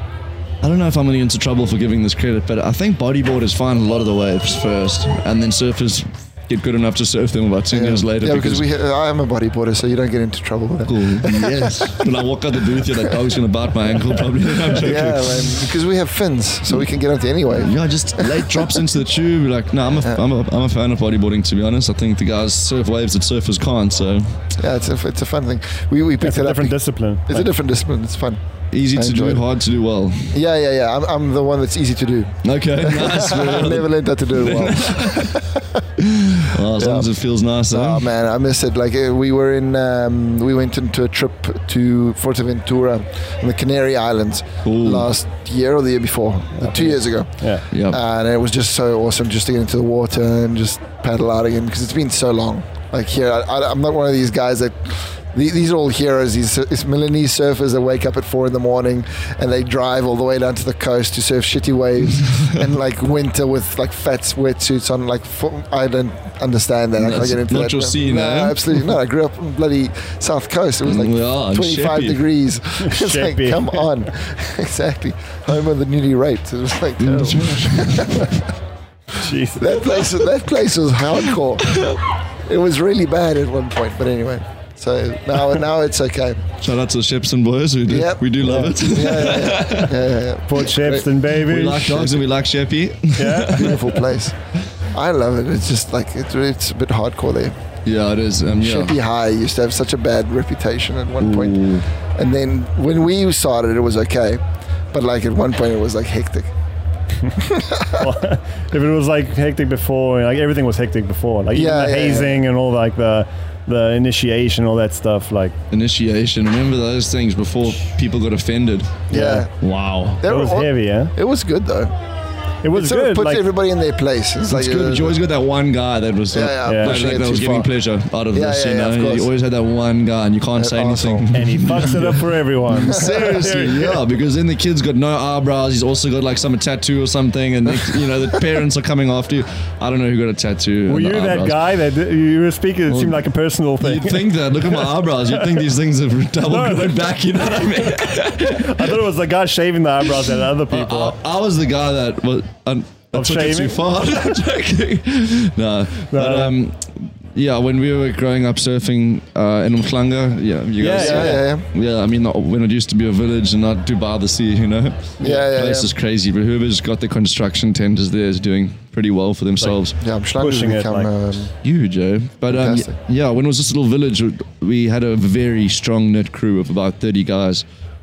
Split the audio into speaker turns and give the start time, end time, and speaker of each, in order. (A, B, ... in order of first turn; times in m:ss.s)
0:00.6-0:08.6 A
0:07.7-0:12.1 B
0:10.9-0:15.7 A
0:14.7-0:18.9 B
0:17.5-0:24.5 A
0:24.6-0:26.8 B
0:26.2-0:27.5 C
0:27.3-0:28.4 B
0:28.7-0:30.4 A
0:28.9-0:29.4 B
0:30.3-0:35.8 B
0:32.4-0:35.4 A
0:36.0-0:38.1 A
0:36.7-0:37.1 B
0:37.7-1:18.5 B
0:44.6-0:45.1 A
0:46.6-0:47.6 C
0:47.7-0:48.0 A
1:07.0-1:08.8 A
1:10.8-1:12.2 A
1:12.8-1:14.1 C
1:17.0-1:18.1 A
1:19.2-1:19.8 C
1:19.6-1:21.9 B
1:22.5-1:26.5 B
1:26.6-1:30.0 A
1:27.9-1:31.0 B
1:28.4-1:28.7 C
1:30.5-1:32.2 C
1:31.3-1:34.0 A
1:33.2-1:33.7 C
1:33.5-1:37.6 B
1:37.8-1:39.0 A
1:38.5-1:46.5 B
1:41.2-1:41.9 A
1:47.3-1:48.1 B
1:48.0-1:55.6 C
1:51.5-1:52.4 B
1:55.7-2:00.2 A
1:59.1-1:59.5 B
1:59.1-1:59.5 C
2:00.2-2:01.9 B
2:00.2-2:01.1 C
2:02.6-2:03.4 C
2:02.7-2:05.2 B
2:04.5-2:21.6 A
2:06.3-2:07.7 B
2:06.6-2:07.0 C
2:08.3-2:09.3 B
2:10.6-2:11.3 B
2:11.3-2:14.0 C
2:12.7-2:13.9 B
2:17.7-2:18.4 B
2:20.9-2:25.6 C
2:22.9-2:23.2 A
2:23.8-2:29.0 A
2:26.5-2:31.2 C
2:30.7-2:50.0 A
2:33.1-2:33.8 C
2:36.1-2:36.5 C
2:40.8-2:41.4 C
2:40.9-2:41.7 B
2:45.2-2:46.0 B
2:50.0-2:51.6 B
2:50.4-2:51.1 C
2:51.6-2:57.6 A
2:52.5-2:53.0 B